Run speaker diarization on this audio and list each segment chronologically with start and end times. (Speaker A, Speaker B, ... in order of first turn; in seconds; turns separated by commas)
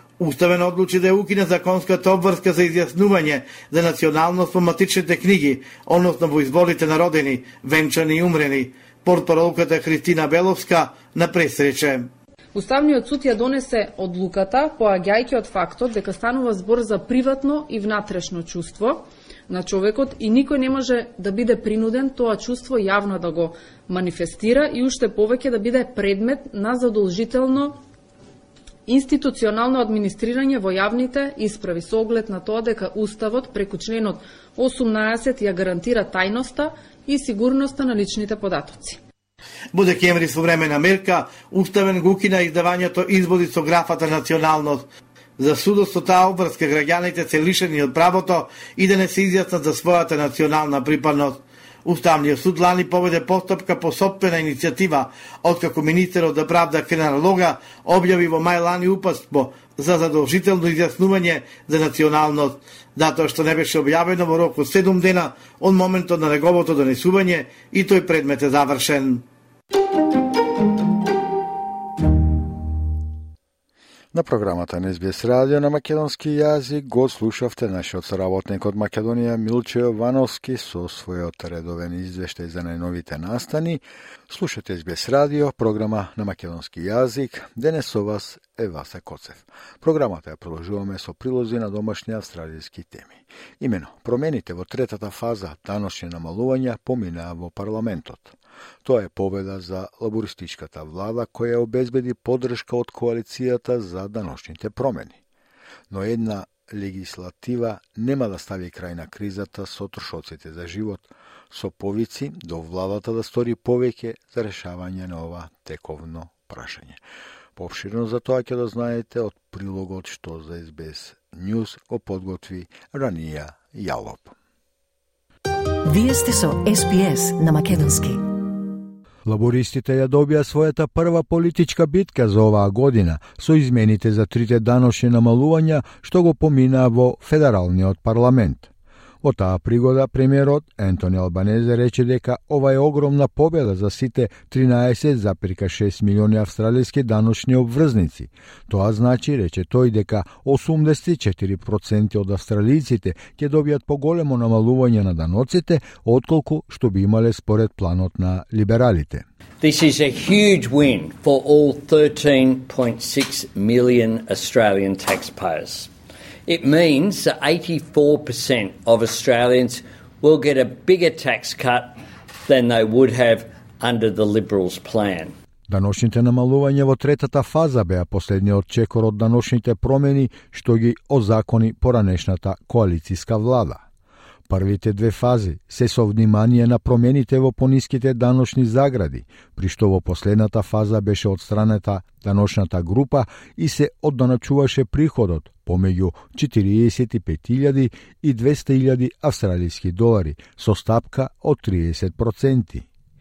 Speaker A: 0.2-12.1, Speaker B: 12.5-27.8, Speaker B: 28.9-39.0, Speaker A: 39.7-44.9, Speaker A: 45.4-69.2, Speaker C: 74.1-105.2, Speaker C: 105.9-117.0, Speaker C: 117.6-124.3, Speaker D: 125.8-128.2, Speaker C: 129.2-138.7, Speaker C: 139.2-159.2, Speaker E: 159.6-165.9, Speaker E: 166.5-175.3, Speaker C: 175.7-183.8, Speaker C: 184.5-202.9